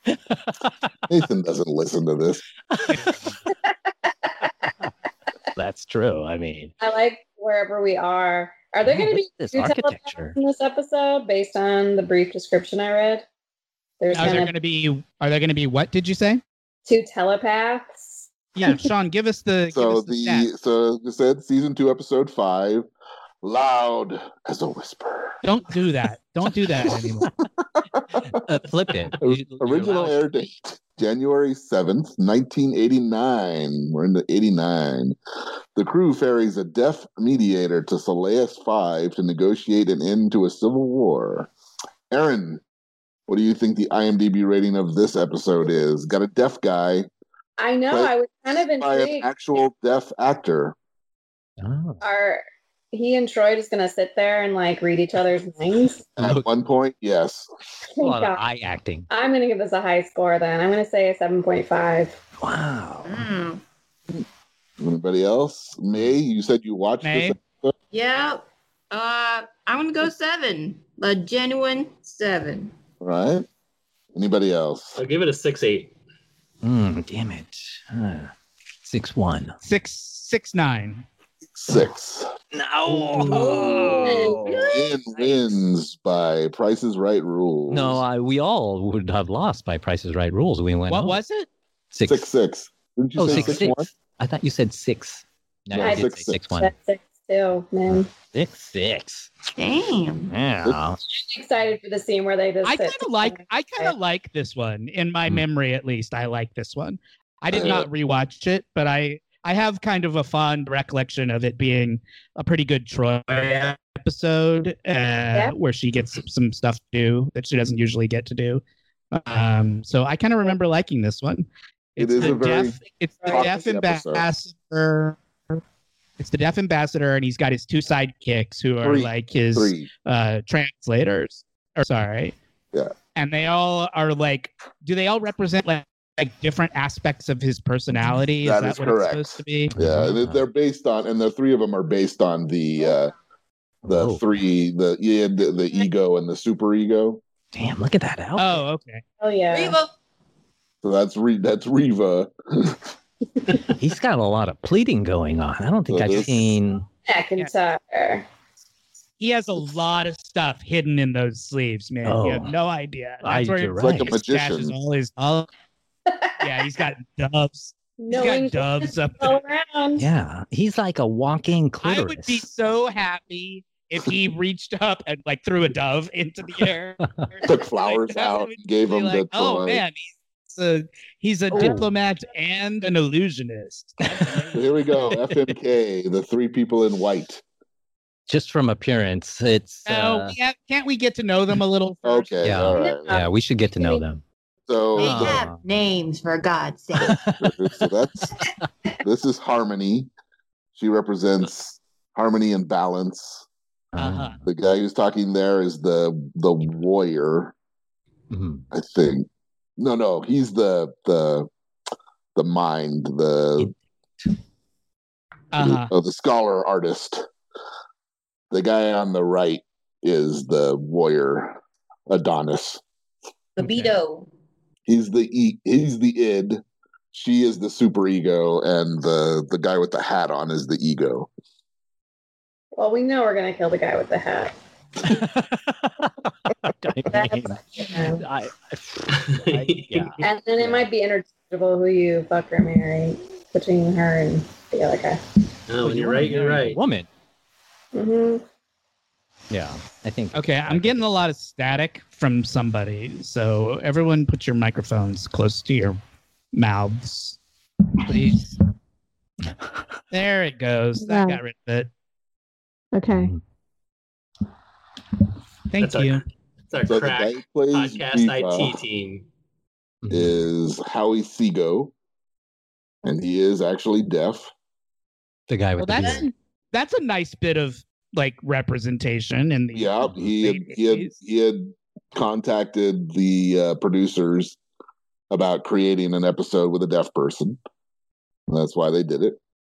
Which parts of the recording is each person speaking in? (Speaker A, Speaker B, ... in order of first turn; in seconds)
Speaker A: 0.1-0.9, 2.7-3.4, 5.6-6.7, 8.8-10.4, 28.2-30.2, 51.6-52.0, 56.2-56.5, 58.0-59.1, 62.4-63.2, 76.6-78.3, 78.8-79.6, 82.5-85.5, 87.7-91.2, 91.9-92.3, 93.2-96.7, 97.9-99.3, 100.3-101.0, 139.7-140.4, 143.8-144.2, 147.5-148.6, 153.8-156.8, 162.1-162.5, 163.2-164.2, 170.0-172.4, 181.5-181.9, 184.1-184.4, 185.1-185.4, 188.3-190.4, 192.4-194.2, 195.0-195.6, 197.1-197.5, 203.9-204.5, 208.3-208.7, 213.6-214.3, 235.0-240.9, 245.8-247.1, 249.5-251.1, 263.1-263.4, 270.0-270.5, 275.5-276.3
Speaker B: 1.1-2.4, 19.7-22.9, 23.4-25.4, 26.8-27.3, 27.9-28.2, 29.2-35.2, 35.8-41.5, 42.1-42.6, 43.3-47.1, 47.9-50.8, 56.2-57.5, 64.8-67.7, 73.0-73.5, 74.1-75.0, 81.5-82.3, 84.7-88.0, 92.0-93.9, 95.7-96.4, 107.5-107.9, 122.0-124.2, 128.8-129.9, 138.4-143.1, 143.9-147.2, 150.8-152.9, 155.9-156.6, 163.8-164.7, 177.4-179.8, 184.5-187.4, 192.0-193.2, 194.7-195.4, 197.0-198.4, 199.0-200.1, 200.8-203.5, 204.5-207.6, 208.7-211.5, 212.4-213.7, 215.6-217.3, 218.5-222.8, 224.9-226.6, 227.1-231.3, 266.9-268.8, 270.1-271.9, 273.1-274.5, 279.7-284.6, 285.3-287.6, 288.5-289.4
Speaker C: 2.9-3.2, 14.1-16.4, 18.6-20.5, 25.4-27.3, 67.0-67.4, 79.6-81.1, 90.9-91.5, 93.3-93.6, 102.6-125.6, 126.2-132.3, 133.2-139.7, 148.4-149.0, 159.2-165.5, 166.4-169.4, 171.8-184.6, 189.9-192.4, 204.0-204.4, 215.5-215.9, 250.3-256.0, 256.5-257.4, 258.0-258.6, 260.1-261.9, 265.7-266.2, 275.8-281.2
Speaker D: 3.5-4.7, 6.8-13.3, 14.0-14.5, 16.9-18.7, 47.6-49.3, 52.0-56.0, 58.0-58.4, 59.1-62.2, 83.2-84.6, 95.8-98.1, 101.1-104.0, 149.2-149.8, 157.1-158.2, 168.0-170.1, 192.8-194.0, 232.8-234.5, 237.1-238.2, 240.2-245.2, 247.9-248.4, 261.0-261.4, 262.9-263.3
Speaker E: 63.0-63.6, 67.9-72.7, 84.1-85.0, 99.6-100.3, 149.5-149.9, 195.0-197.2, 223.6-224.3
Speaker F: 75.0-75.9, 239.1-240.1, 245.7-246.8, 265.8-269.3